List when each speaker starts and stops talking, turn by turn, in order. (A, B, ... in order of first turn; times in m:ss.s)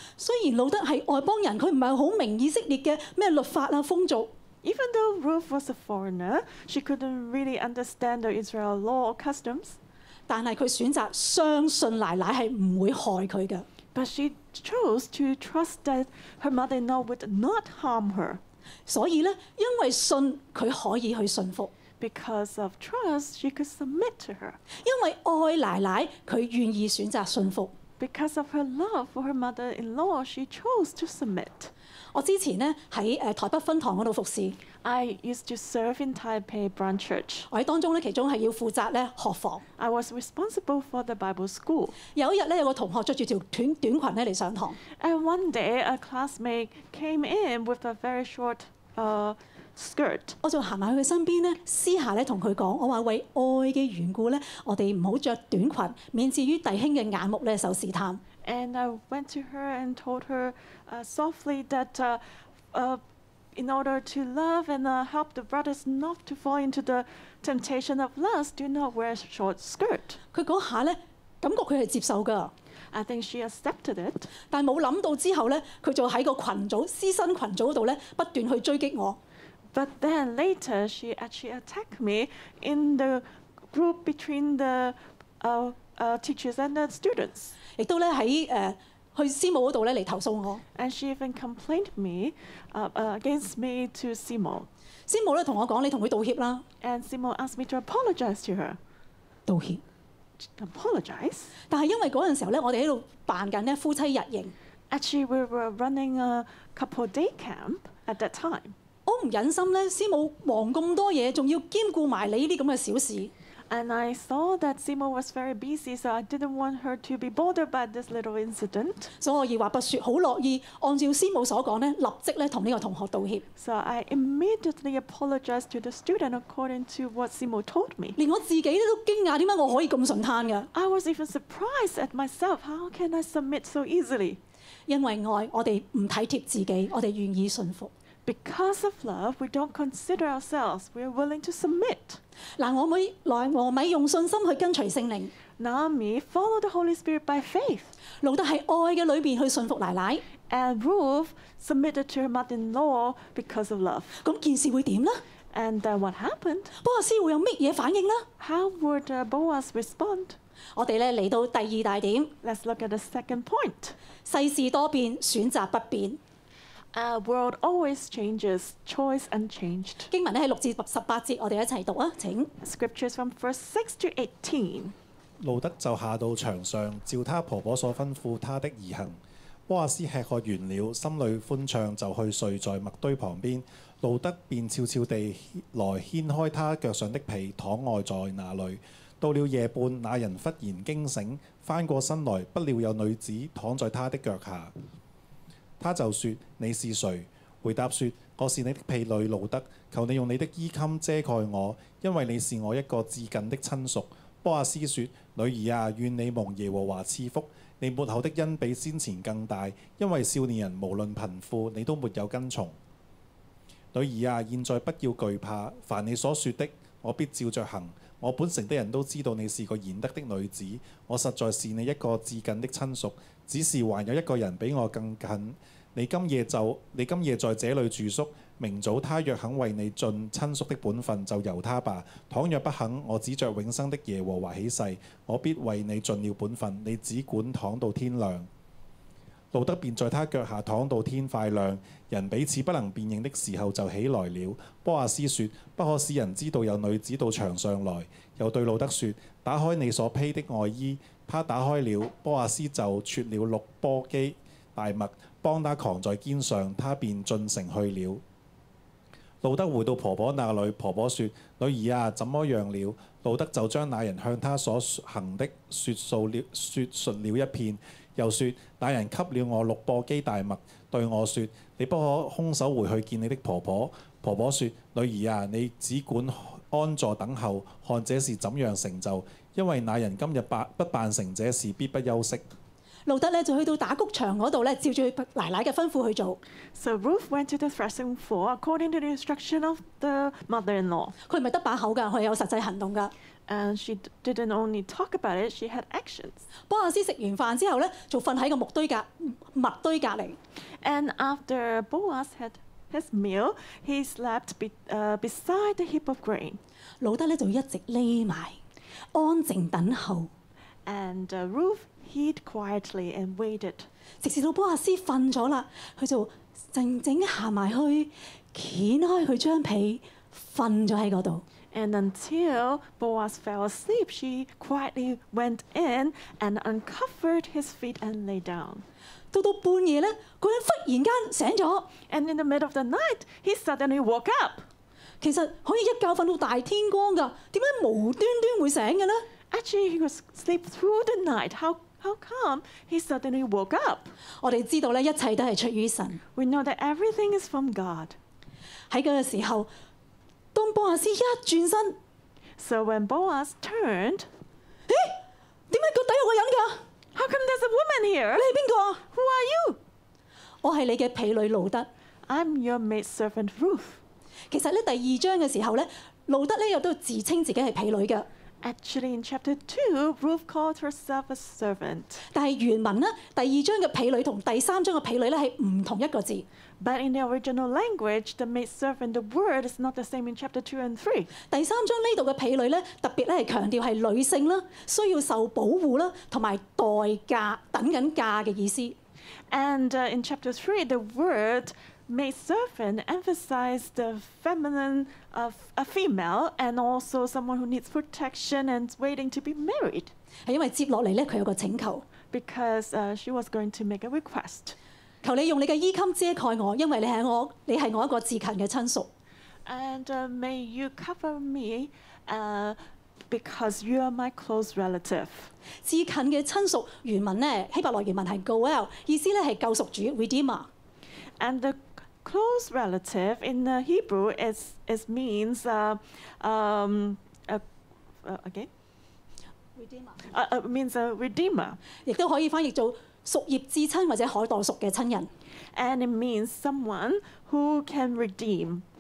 0:00.2-0:04.3 A
0:04.6-0:09.8 B
0:10.3-0:13.7 A
0:14.0-0:18.4 B
0:18.9-0:21.7 A
0:22.0-0:24.6 B
0:24.8-0:27.7 A
0:28.0-0:31.7 B
0:32.1-0:34.6 A
0:34.8-0:37.5 B
0:37.5-0:39.6 A
0:39.8-0:42.0 B
0:42.1-0:44.8 A
0:45.0-0:50.4 B
0:50.4-0:58.2 A
0:58.4-1:02.2 B
1:02.7-1:03.0 B
1:03.6-1:10.2 B
1:10.3-1:12.5 A
1:12.9-1:14.3 B
1:14.5-1:19.2 A
1:19.7-1:27.6 B
1:27.8-1:30.6 A
1:30.8-1:34.7 B
1:35.1-1:36.6 A
1:36.8-1:38.8 B
1:39.5-1:39.8 A
1:40.4-1:41.5 B
1:41.7-1:44.5 A
1:44.9-1:48.8 B
1:49.1-1:53.3 A
1:53.7-1:59.1 B
1:59.2-2:03.4 A
2:03.6-2:08.2 B
2:08.2-2:10.7 A
2:10.7-2:14.4 B
2:14.9-2:17.9 A
2:18.3-2:22.2 B
2:22.6-2:25.3 A
2:25.6-2:27.9 B
2:28.2-2:30.2 A
2:30.5-2:34.2 B
2:34.2-2:35.2 A
2:35.5-2:36.7 B
2:36.8-2:38.3 A
2:38.4-2:40.4 B
2:40.8-2:42.3 A
2:42.4-2:44.0 B
2:44.2-2:46.2 A
2:46.9-2:50.1 B
2:50.1-2:52.5 A
2:52.6-2:54.9 B
2:55.4-3:14.7 C
3:15.8-3:32.8 C
3:33.9-3:58.5 C
3:59.5-4:18.2 C
4:19.4-4:42.4 C
4:43.1-4:46.4 A
4:46.8-4:51.1 B
4:51.3-4:53.1 A
4:53.5-4:56.5 B
4:56.7-5:00.4 A
5:00.8-5:06.6 B
5:07.0-5:08.6 A
5:09.1-5:10.3 A
5:10.9-5:13.9 B
5:14.2-5:21.4 A
5:21.7-5:28.8 B
5:29.3-5:31.9 A
5:32.1-5:34.6 B
5:35.2-5:39.3 A
5:39.5-5:44.1 B
5:44.4-5:46.2 A
5:46.4-5:48.2 B
5:48.9-5:49.7 A
5:50.5-5:52.0 A
5:52.6-5:54.3 B
5:54.9-5:55.2 A
5:55.7-5:56.8 A
5:57.1-5:58.5 B
5:58.4-5:59.0 A
5:59.1-5:59.8 B
6:00.6-6:01.9 A
6:02.3-6:04.0 B
6:04.5-6:08.3 A
6:08.6-6:12.2 B
6:12.3-6:16.5 A
6:16.8-6:21.3 B
6:21.5-6:29.0 A
6:29.5-6:40.1 B
6:40.5-6:42.0 A
6:42.3-6:44.8 B
6:45.2-6:49.1 A
6:49.6-6:52.8 B
6:53.3-6:55.5 B
6:55.8-7:00.7 A
7:01.4-7:07.6 B
7:08.2-7:08.7 B
7:09.8-7:10.2 A
7:10.2-7:11.8 B
7:12.0-7:15.3 A
7:15.7-7:18.8 B